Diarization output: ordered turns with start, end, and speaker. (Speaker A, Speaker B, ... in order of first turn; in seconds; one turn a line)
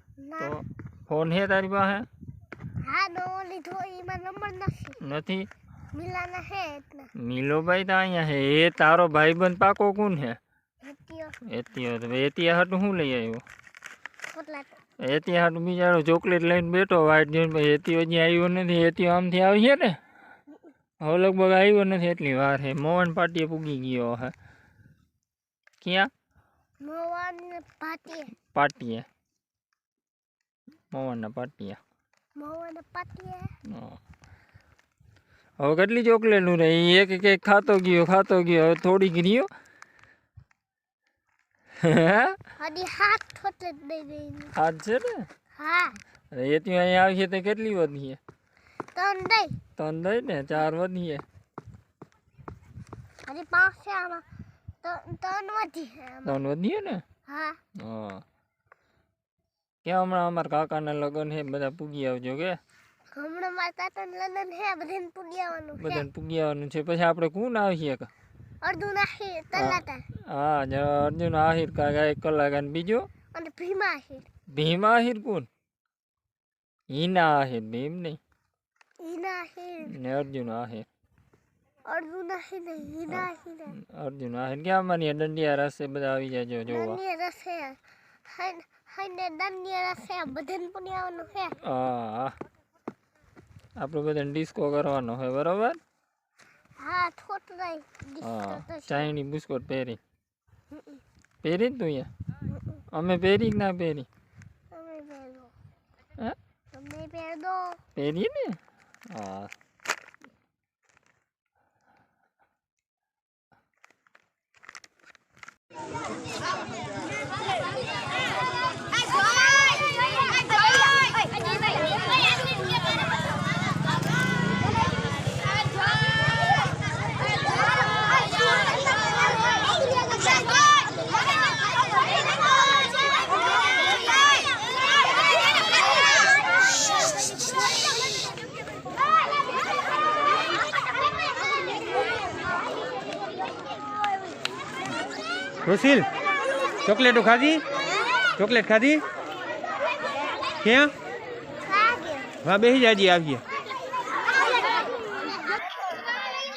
Speaker A: 0.2-0.6
Speaker B: 0.4-2.1
Speaker A: 2.8-5.0
Speaker B: 5.0-5.5
Speaker A: 5.9-7.1
Speaker B: 7.2-10.4
Speaker A: 10.8-11.3
Speaker B: 11.4-13.4
Speaker A: 14.3-14.8
Speaker B: 15.0-20.0
Speaker B: 21.0-24.3
Speaker B: 25.8-26.1
Speaker A: 26.8-28.3
Speaker B: 28.5-29.1
Speaker B: 30.9-31.8
Speaker A: 32.4-33.5
Speaker B: 33.7-34.0
Speaker B: 35.6-39.5
Speaker B: 41.8-42.4
Speaker A: 42.6-44.5
Speaker B: 44.5-45.3
Speaker A: 45.6-46.0
Speaker B: 46.3-48.2
Speaker A: 48.9-49.6
Speaker B: 49.8-51.2
Speaker A: 53.2-54.2
Speaker A: 54.8-56.4
Speaker B: 56.2-57.0
Speaker A: 57.3-57.6
Speaker B: 57.8-58.2
Speaker B: 59.8-62.6
Speaker A: 63.1-66.1
Speaker B: 65.8-68.1
Speaker A: 68.6-70.0
Speaker B: 69.5-73.1
Speaker A: 73.3-74.3
Speaker B: 74.5-75.5
Speaker B: 76.9-78.2
Speaker A: 79.0-79.9
Speaker B: 79.9-80.9
Speaker A: 81.8-83.8
Speaker B: 83.1-87.0
Speaker A: 86.7-91.6
Speaker B: 91.6-92.3
Speaker B: 93.8-95.8
Speaker A: 96.8-99.1
Speaker B: 98.2-100.0
Speaker A: 100.7-101.0
Speaker B: 101.4-102.1
Speaker B: 102.9-104.1
Speaker A: 104.7-105.5
Speaker A: 106.7-107.8
Speaker B: 107.9-108.6
Speaker B: 109.1-109.5
Speaker C: 145.7-146.1
Speaker C: 147.1-147.6
Speaker C: 148.4-149.0
Speaker A: 151.6-152.4
Speaker C: 152.9-153.4